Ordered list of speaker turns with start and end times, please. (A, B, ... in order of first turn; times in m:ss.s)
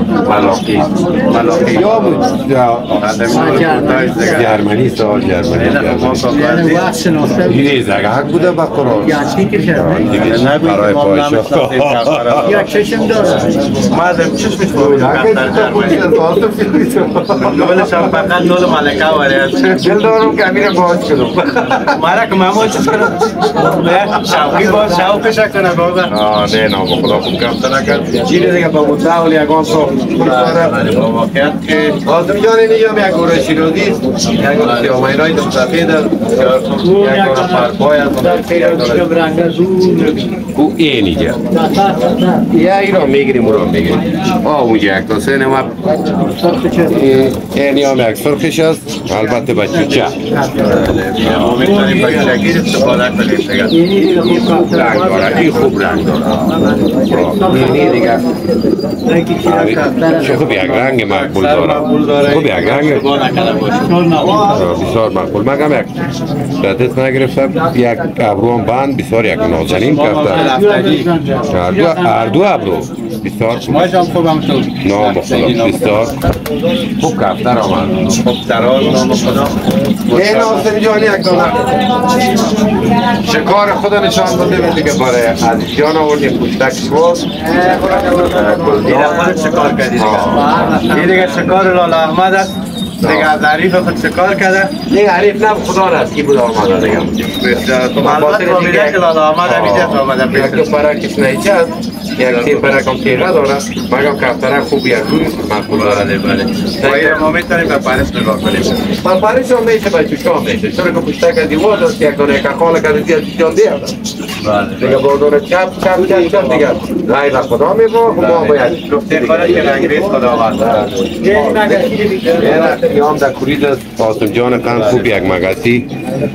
0:00.2-0:00.9 A
0:00.2-0:02.4 B
0:01.4-0:03.4 A
0:02.9-0:04.4 B
0:03.3-0:04.5 C
0:04.1-0:06.3 A
0:05.5-0:07.3 B
0:06.3-0:07.6 C
0:07.4-0:12.6 A
0:09.0-0:10.2 C
0:10.1-0:13.2 B
0:12.4-0:13.7 C
0:13.8-0:16.2 B
0:14.7-0:18.4 A
0:17.3-0:19.9 B
0:19.7-0:22.0 A
0:21.9-0:26.1 B
0:23.0-0:23.7 A
0:26.1-0:31.0 A
0:30.2-0:32.0 B
0:32.0-0:39.1 A
0:34.4-0:35.1 B
0:36.3-0:37.3 B
0:36.8-0:40.4 C
0:40.5-0:41.4 A
0:41.5-0:42.4 C
0:42.4-0:45.8 A
0:46.0-0:47.2 C
0:46.8-0:50.2 A
0:49.5-0:50.7 C
0:50.4-0:53.9 B
0:51.2-0:52.1 A
0:51.6-0:52.0 C
0:53.7-0:55.6 C
0:53.8-0:58.4 A
0:56.7-0:58.2 C
0:59.1-1:04.7 B
0:59.4-1:03.0 A
0:59.9-1:00.4 C
1:03.8-1:04.7 C
1:04.2-1:10.5 A
1:09.6-1:11.5 B
1:10.2-1:12.5 C
1:11.5-1:14.0 A
1:12.9-1:16.2 B
1:14.8-1:16.2 A
1:17.0-1:18.1 A
1:18.0-1:20.7 B
1:20.1-1:22.4 A
1:22.9-1:29.3 A
1:27.4-1:34.8 B
1:29.9-1:30.5 A
1:30.6-1:30.8 C
1:33.0-1:33.3 A
1:34.8-1:46.1 A
1:38.0-1:40.8 B
1:42.2-1:42.9 B
1:45.7-1:49.0 B
1:46.8-1:47.2 A
1:49.0-1:54.0 A
1:54.4-1:55.0 B
1:54.8-2:00.0 A
1:55.9-1:56.7 B
1:58.1-2:02.7 B
2:00.6-2:01.3 A
2:01.2-2:02.4 C
2:02.3-2:05.9 A
2:04.7-2:05.1 B